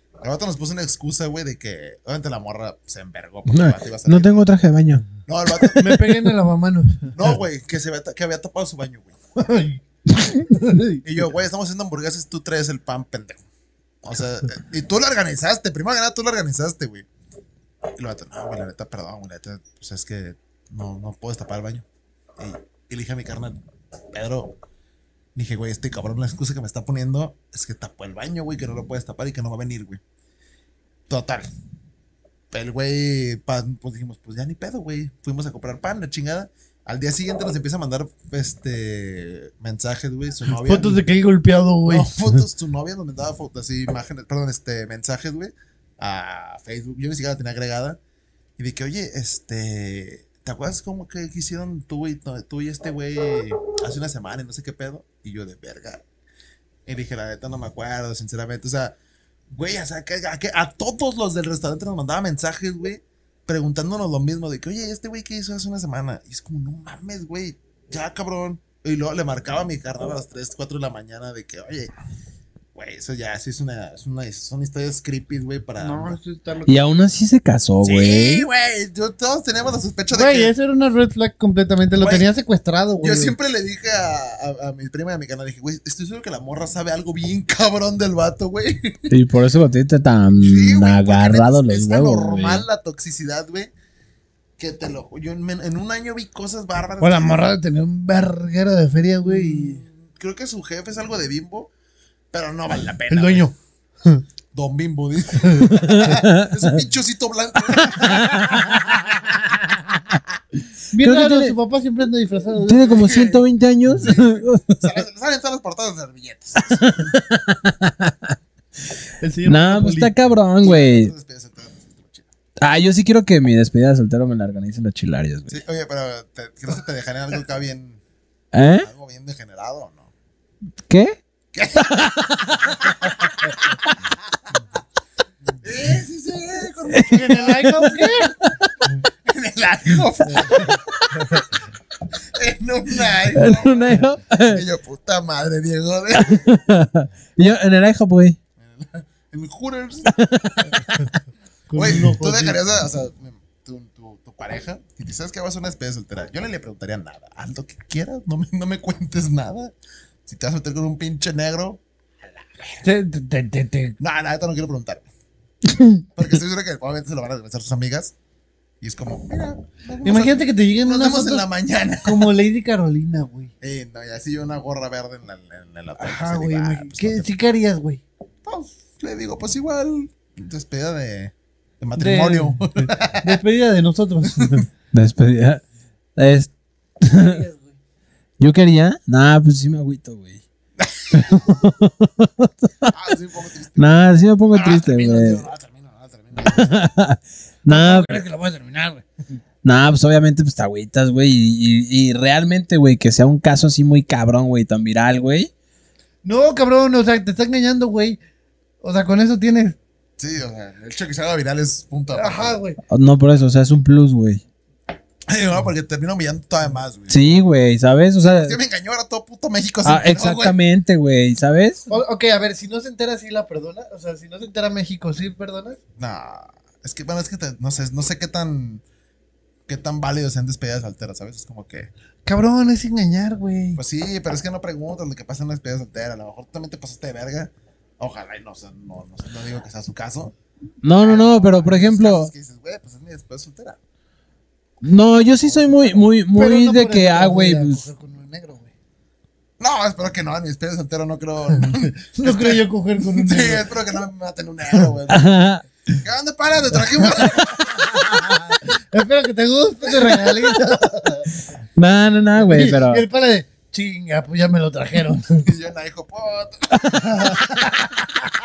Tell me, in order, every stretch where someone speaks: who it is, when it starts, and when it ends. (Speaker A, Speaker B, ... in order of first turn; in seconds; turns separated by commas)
Speaker A: 0.2-4.5, Speaker B: 3.5-5.1, Speaker A: 5.2-6.0, Speaker C: 5.8-7.2, Speaker A: 7.1-9.2, Speaker C: 9.4-11.0, Speaker A: 11.0-13.4, Speaker A: 14.0-17.1, Speaker A: 18.0-21.9, Speaker A: 22.4-23.6, Speaker A: 24.1-24.6, Speaker A: 25.4-30.0, Speaker A: 31.1-31.5, Speaker A: 32.5-41.0, Speaker C: 40.5-42.4, Speaker A: 41.9-48.0, Speaker A: 48.6-56.0, Speaker A: 56.9-59.0, Speaker A: 59.5-71.9, Speaker A: 72.7-76.2, Speaker C: 75.8-76.9, Speaker B: 76.7-78.5, Speaker A: 77.8-80.5, Speaker C: 80.1-83.3, Speaker A: 82.0-82.3, Speaker A: 83.0-89.1, Speaker B: 89.1-92.7, Speaker A: 90.4-93.7, Speaker A: 94.6-97.5, Speaker C: 97.0-99.8, Speaker A: 99.2-101.7, Speaker A: 102.3-103.5, Speaker C: 103.1-104.2, Speaker A: 104.5-109.3, Speaker C: 105.4-105.8, Speaker B: 105.7-106.7, Speaker C: 108.0-110.0, Speaker B: 108.1-108.7, Speaker C: 110.9-113.2, Speaker B: 111.0-111.6, Speaker B: 112.7-114.9, Speaker A: 112.9-117.2, Speaker B: 116.6-118.4, Speaker C: 119.2-120.1, Speaker B: 119.5-121.1, Speaker A: 120.6-122.3, Speaker B: 122.6-125.5, Speaker A: 125.5-128.0, Speaker B: 128.5-128.9, Speaker A: 128.8-130.1, Speaker B: 130.9-131.2, Speaker A: 131.5-134.5, Speaker B: 131.8-133.2, Speaker A: 135.6-137.6, Speaker B: 136.9-138.8, Speaker C: 137.1-138.3, Speaker A: 139.2-141.5, Speaker C: 140.3-140.7, Speaker A: 142.2-146.5, Speaker B: 143.3-144.6, Speaker B: 146.2-148.4, Speaker A: 148.6-150.7, Speaker B: 150.1-151.1, Speaker C: 151.7-152.6, Speaker A: 151.8-159.7, Speaker A: 160.2-162.8, Speaker C: 162.8-164.0, Speaker A: 164.0-165.1, Speaker B: 165.7-166.0, Speaker A: 166.2-168.1, Speaker A: 168.8-172.3, Speaker C: 170.0-171.5, Speaker C: 172.0-173.5, Speaker A: 173.6-177.3, Speaker C: 176.0-178.0, Speaker A: 178.4-183.4, Speaker C: 182.0-184.7, Speaker A: 184.3-184.7, Speaker B: 184.9-185.6, Speaker B: 186.2-187.4, Speaker C: 187.1-187.8, Speaker B: 188.4-190.4, Speaker A: 190.8-191.7, Speaker B: 191.1-192.9, Speaker A: 192.9-196.8, Speaker B: 193.8-195.5, Speaker B: 196.4-198.2, Speaker C: 197.7-199.1, Speaker B: 199.6-205.5, Speaker C: 206.2-208.2, Speaker C: 208.8-209.8, Speaker A: 210.2-212.6, Speaker C: 212.1-212.8, Speaker B: 212.9-214.4, Speaker A: 215.3-217.4, Speaker B: 217.1-218.6, Speaker A: 218.2-220.6, Speaker B: 219.8-221.9, Speaker C: 221.9-225.8, Speaker A: 226.0-228.8, Speaker A: 229.7-231.9, Speaker C: 232.3-233.8, Speaker A: 233.8-240.3, Speaker B: 240.8-242.3, Speaker A: 240.9-243.8, Speaker B: 244.8-247.8, Speaker C: 246.3-248.7, Speaker A: 249.6-255.4, Speaker C: 251.6-253.7, Speaker B: 255.1-255.6, Speaker A: 256.0-258.4, Speaker C: 256.9-261.3, Speaker B: 261.8-263.0, Speaker C: 262.4-265.5, Speaker A: 265.4-267.9, Speaker C: 266.9-267.9